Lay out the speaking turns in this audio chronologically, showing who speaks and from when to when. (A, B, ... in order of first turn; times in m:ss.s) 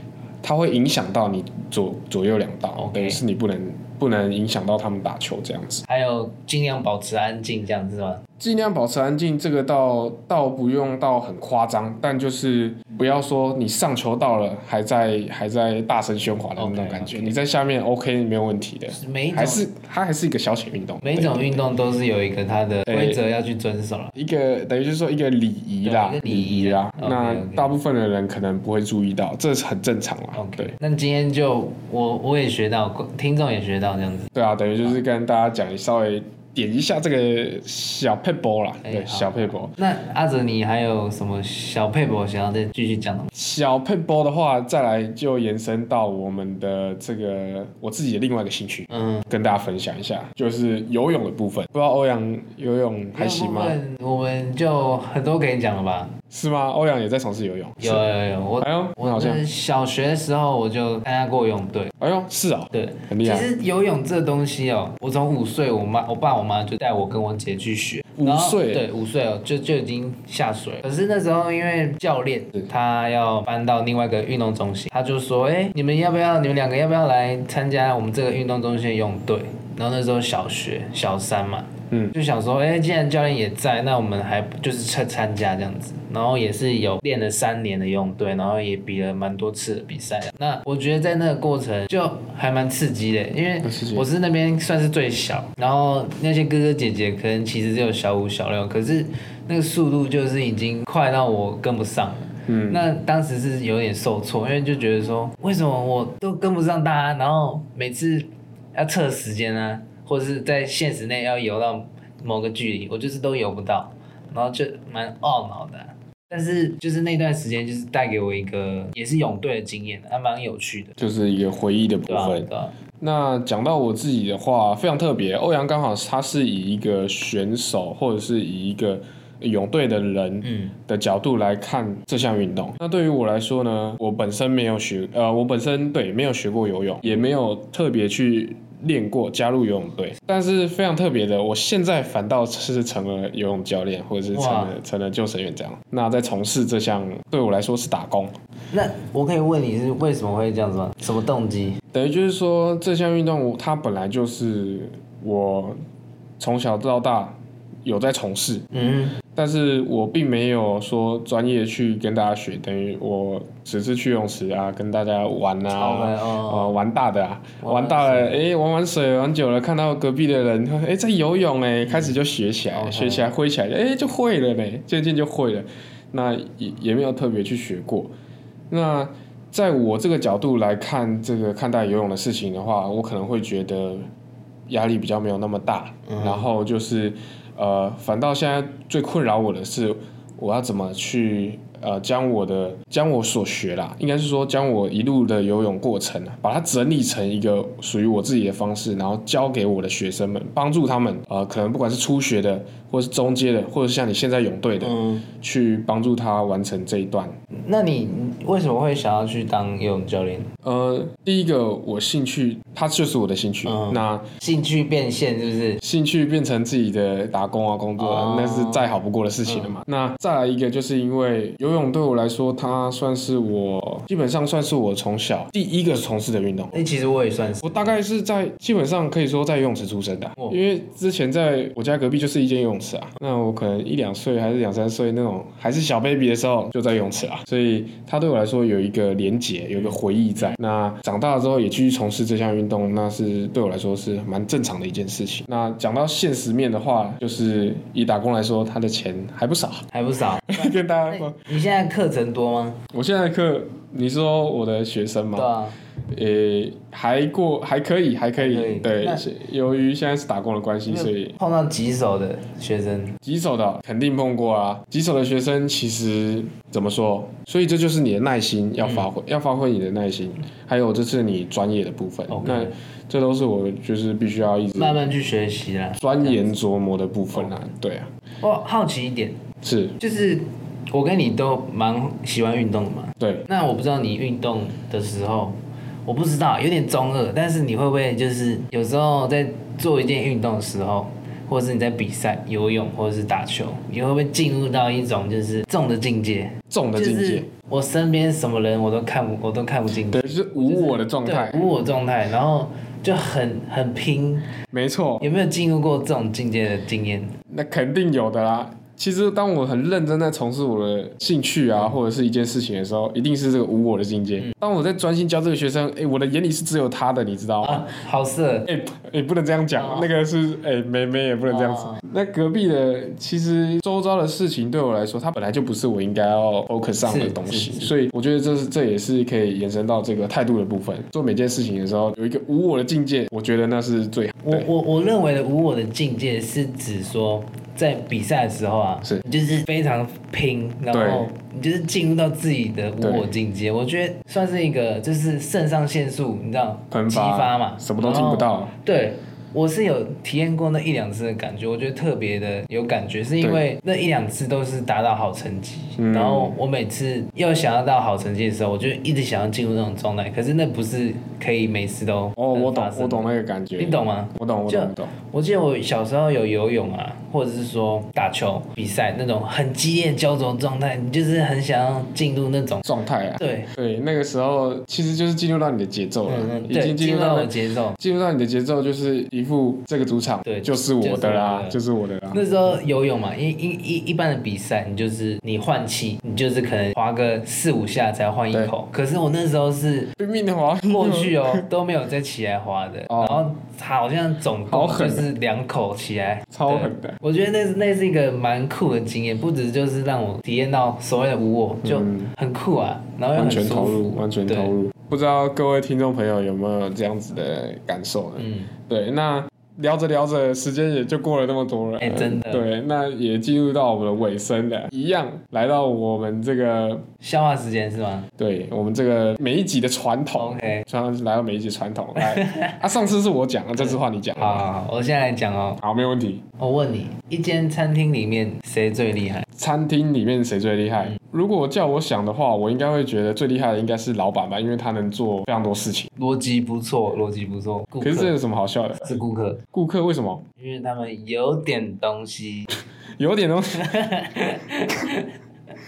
0:00.4-0:05.9 A
0:02.8-0:03.2 B
0:05.9-0:08.2 B
0:08.4-0:21.6 A
0:16.6-0:17.4 B
0:18.9-0:19.7 B
0:21.0-0:24.1 B
0:22.9-0:23.2 A
0:24.2-0:30.8 A
0:25.8-0:27.8 B
0:30.3-0:34.3 B
0:34.3-0:39.7 A
0:38.8-0:43.3 B
0:43.3-0:53.8 A
0:48.9-0:49.3 B
0:53.1-0:56.1 B
0:56.3-0:58.0 A
0:57.8-1:01.9 B
0:58.6-0:59.4 A
1:02.0-1:03.5 A
1:02.7-2:01.0 B
1:08.2-1:08.8 A
1:33.6-1:34.1 A
1:42.5-1:42.9 A
2:01.0-2:02.5 A
2:02.1-2:02.8 B
2:03.0-2:28.3 A
2:10.4-2:10.7 B
2:24.3-2:24.8 B
2:28.7-2:31.8 B
2:31.9-2:35.8 A
2:36.4-2:38.7 A
2:38.7-2:39.2 B
2:39.3-2:58.1 A
2:45.7-2:46.8 B
2:47.6-2:48.4 B
2:51.8-2:52.2 B
2:52.7-2:53.3 B
2:58.7-3:04.0 A
3:04.7-3:27.3 A
3:06.1-3:06.5 B
3:24.8-3:25.2 B
3:27.7-3:30.5 B
3:30.6-3:34.2 A
3:33.6-3:35.8 B
3:35.8-3:46.8 A
3:38.0-3:38.9 B
3:39.5-3:39.8 B
3:46.7-3:48.0 B
3:47.6-4:09.8 A
3:59.7-4:00.6 B
4:09.9-4:12.8 B
4:10.4-4:11.4 A
4:12.9-4:15.5 A
4:15.3-4:15.8 B
4:16.1-4:21.4 A
4:18.4-4:19.2 B
4:20.9-4:23.2 B
4:23.2-4:35.1 A
4:28.8-4:29.1 B
4:32.3-4:32.7 B
4:34.8-4:36.6 B
4:36.0-4:38.1 A
4:38.4-4:39.4 B
4:39.6-4:40.0 A
4:40.0-5:04.5 B
4:43.2-4:43.5 A
4:56.7-4:57.5 A
4:59.9-5:01.7 A
5:04.7-5:05.3 A
5:05.2-5:07.3 B
5:07.5-5:18.0 A
5:17.6-5:18.7 B
5:18.7-5:34.7 A
5:19.8-5:20.1 B
5:21.5-5:22.0 B
5:27.0-5:27.9 B
5:34.4-6:03.3 B
5:40.9-5:41.3 A
5:43.0-5:43.3 A
5:46.9-5:48.7 A
5:56.0-5:56.6 A
6:02.4-6:05.1 A
6:03.8-6:12.8 B
6:12.8-6:22.4 A
6:13.4-6:13.7 B
6:16.3-6:18.0 B
6:20.4-6:21.8 B
6:22.3-6:30.1 B
6:30.2-6:31.7 A
6:30.9-6:44.7 B
6:33.1-6:33.4 A
6:34.7-6:35.3 A
6:36.5-6:37.2 A
6:41.8-6:42.3 A
6:43.4-6:57.0 A
6:48.4-6:48.7 B
6:52.0-6:52.7 B
6:57.2-6:58.3 B
6:58.4-7:04.7 A
7:00.4-7:00.8 B
7:02.2-7:02.8 B
7:03.8-7:05.8 B
7:05.8-7:06.4 A
7:06.6-7:09.5 B
7:09.6-7:16.1 A
7:16.2-7:18.4 B
7:18.0-7:19.1 A
7:19.0-7:19.6 B
7:19.7-7:20.4 A
7:20.6-7:22.7 B
7:23.2-7:24.1 A
7:23.8-7:25.3 B